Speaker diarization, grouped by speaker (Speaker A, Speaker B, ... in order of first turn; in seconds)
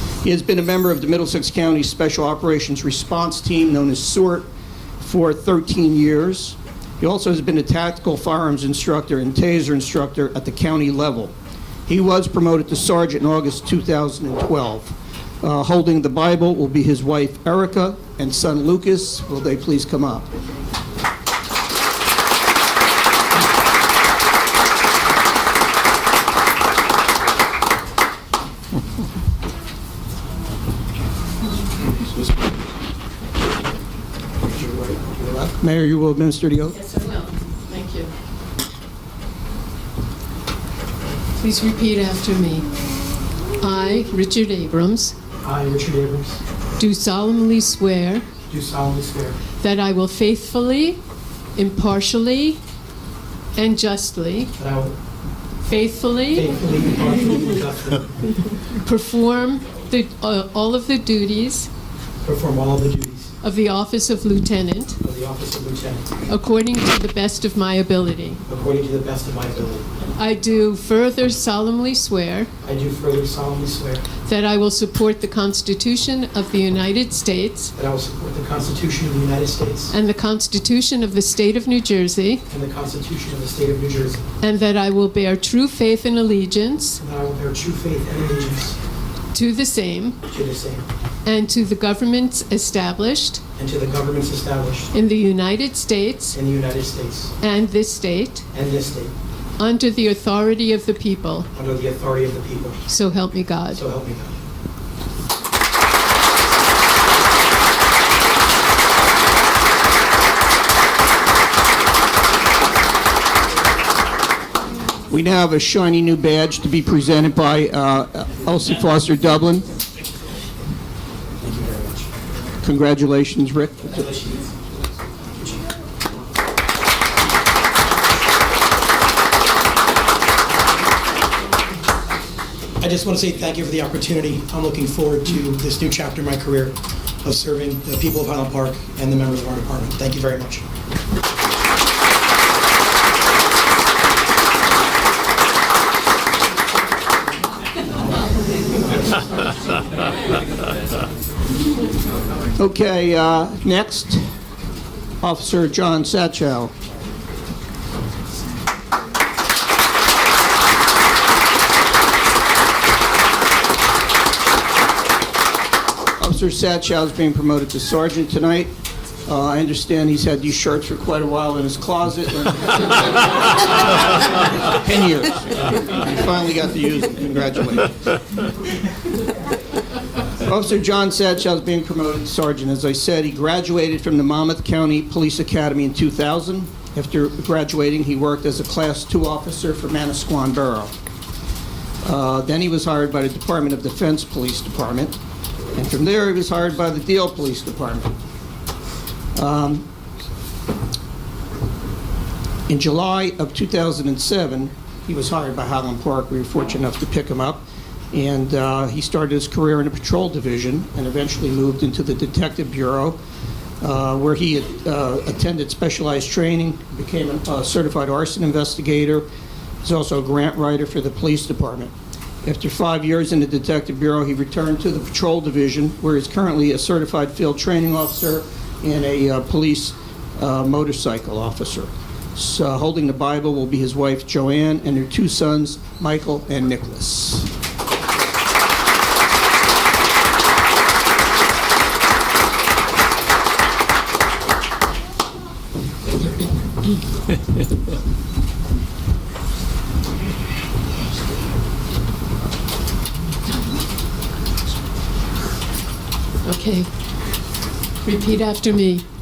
Speaker A: 0.2-4.5, 5.0-11.3, 11.9-20.3, 34.8-36.8, 115.1-119.7, 122.6-124.0, 152.6-154.3, 155.2-156.7, 166.2-168.7, 169.2-178.0, 180.4-190.9, 192.0-195.2, 195.7-198.1, 199.3-199.8, 202.7-213.2, 213.8-219.2, 219.8-221.9, 222.4-237.5
Speaker B: 36.7-38.1, 41.4-42.6, 43.6-45.1, 46.8-48.3, 49.6-51.0, 51.5-52.6, 53.5-54.5, 55.6-56.5, 58.7-61.7, 63.4-65.0, 66.3-68.4, 70.2-72.5, 74.2-77.7, 79.9-82.4, 84.4-87.0, 89.3-90.2, 91.2-93.4, 94.9-96.3, 97.4-98.5, 99.6-101.5, 102.9-103.8, 256.4-256.9, 258.0-259.0
Speaker C: 45.4-46.4, 48.5-49.4, 54.6-55.0, 56.3-58.2, 62.2-63.3, 65.0-66.2, 68.5-69.9, 72.6-74.0, 77.8-79.9, 82.5-84.2, 87.0-88.8, 90.3-90.8, 93.5-94.9, 96.3-97.3, 98.5-99.1, 101.5-102.8, 103.7-104.4, 121.4-122.1, 124.1-124.5, 132.8-140.6